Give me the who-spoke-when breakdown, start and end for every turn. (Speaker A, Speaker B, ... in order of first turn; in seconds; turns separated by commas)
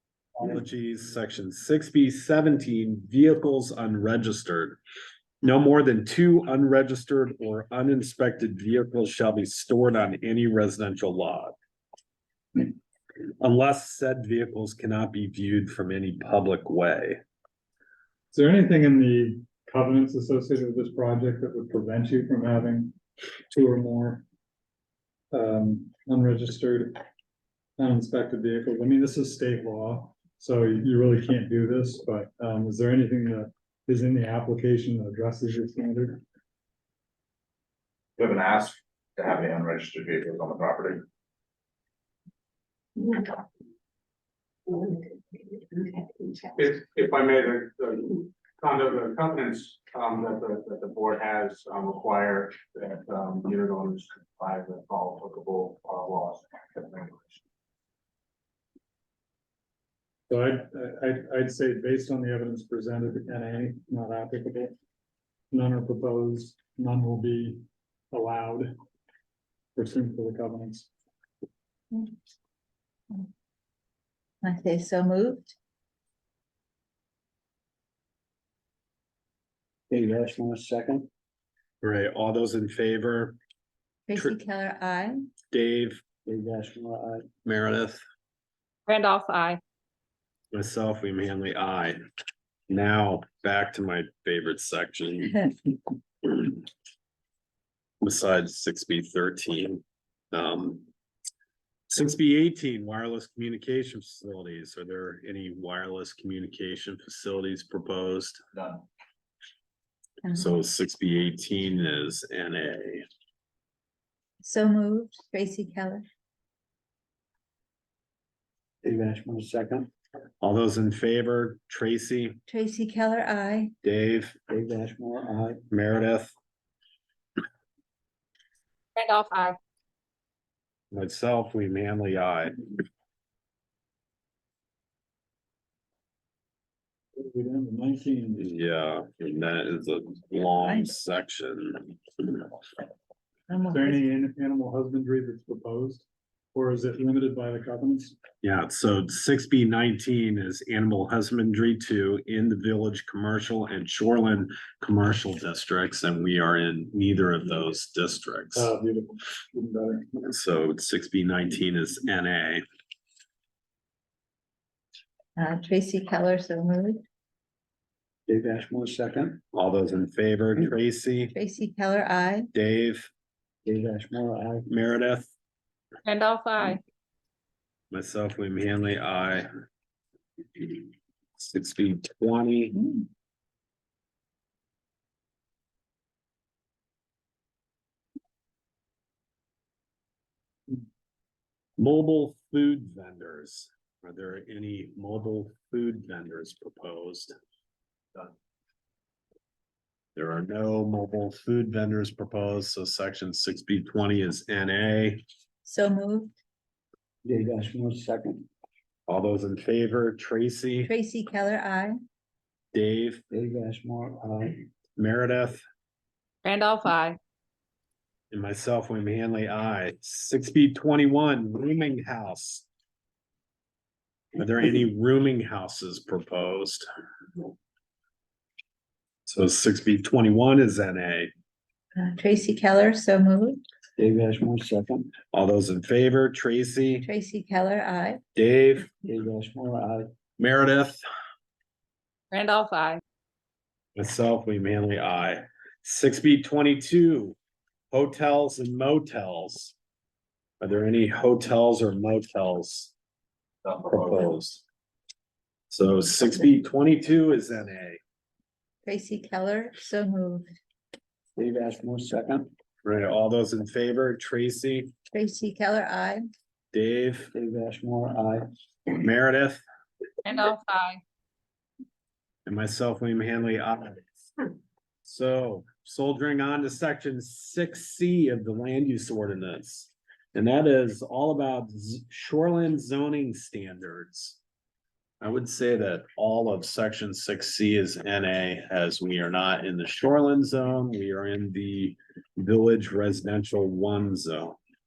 Speaker A: 0.4-4.8, Speaker A: 5.4-11.5, Speaker A: 13.4-17.2, Speaker B: 18.3-23.0, Speaker B: 23.5-24.2, Speaker B: 25.3-27.0, Speaker B: 27.8-36.2, Speaker C: 38.2-41.0, Speaker D: 46.6-57.4, Speaker B: 60.3-64.7, Speaker B: 65.5-68.7, Speaker B: 69.8-70.9, Speaker E: 74.4-75.5, Speaker F: 79.9-81.1, Speaker A: 81.8-83.3, Speaker E: 84.1-85.2, Speaker A: 85.5-86.0, Speaker F: 86.2-87.2, Speaker A: 87.4-88.0, Speaker G: 88.9-89.6, Speaker A: 90.5-92.0, Speaker A: 92.7-95.5, Speaker A: 96.2-96.6, Speaker A: 98.0-100.8, Speaker A: 101.9-108.4, Speaker A: 110.3-113.0, Speaker E: 114.4-116.0, Speaker F: 118.8-119.9, Speaker A: 120.4-122.4, Speaker E: 122.5-123.7, Speaker A: 123.8-124.4, Speaker F: 124.5-125.6, Speaker A: 125.7-126.3, Speaker G: 128.9-129.6, Speaker A: 130.9-132.6, Speaker B: 137.2-138.5, Speaker A: 138.4-142.5, Speaker E: 143.5-144.0, Speaker B: 143.6-148.2, Speaker A: 148.4-158.7, Speaker B: 158.5-160.1, Speaker A: 160.2-162.6, Speaker E: 165.4-167.0, Speaker F: 168.3-169.4, Speaker A: 169.5-171.3, Speaker E: 171.3-172.5, Speaker A: 172.5-173.1, Speaker F: 173.6-174.7, Speaker A: 174.7-175.3, Speaker G: 176.0-176.8, Speaker A: 177.9-179.5, Speaker A: 180.6-180.8, Speaker A: 181.4-182.8, Speaker A: 191.8-197.3, Speaker A: 200.2-205.2, Speaker E: 205.6-206.3, Speaker F: 207.2-208.4, Speaker A: 209.1-210.9, Speaker E: 210.8-211.9, Speaker A: 212.7-213.2, Speaker F: 213.3-214.7, Speaker A: 214.9-215.6, Speaker G: 216.4-217.2, Speaker A: 218.3-222.7, Speaker A: 224.3-226.8, Speaker A: 229.2-231.3, Speaker E: 231.9-233.6, Speaker F: 234.0-235.1, Speaker A: 235.3-237.1, Speaker E: 237.0-238.2, Speaker A: 238.3-238.9, Speaker F: 239.0-240.1, Speaker A: 240.4-241.0, Speaker G: 242.3-243.0, Speaker A: 243.9-247.3, Speaker A: 247.9-249.7, Speaker A: 250.6-252.9, Speaker A: 253.6-254.6, Speaker A: 255.7-258.0, Speaker E: 258.8-260.5, Speaker F: 261.4-262.5, Speaker A: 262.8-264.9, Speaker E: 265.1-266.2, Speaker A: 266.7-267.3, Speaker F: 267.3-268.4, Speaker A: 268.9-269.6, Speaker G: 270.2-271.0, Speaker A: 272.4-274.2, Speaker A: 275.0-284.4, Speaker A: 285.2-294.6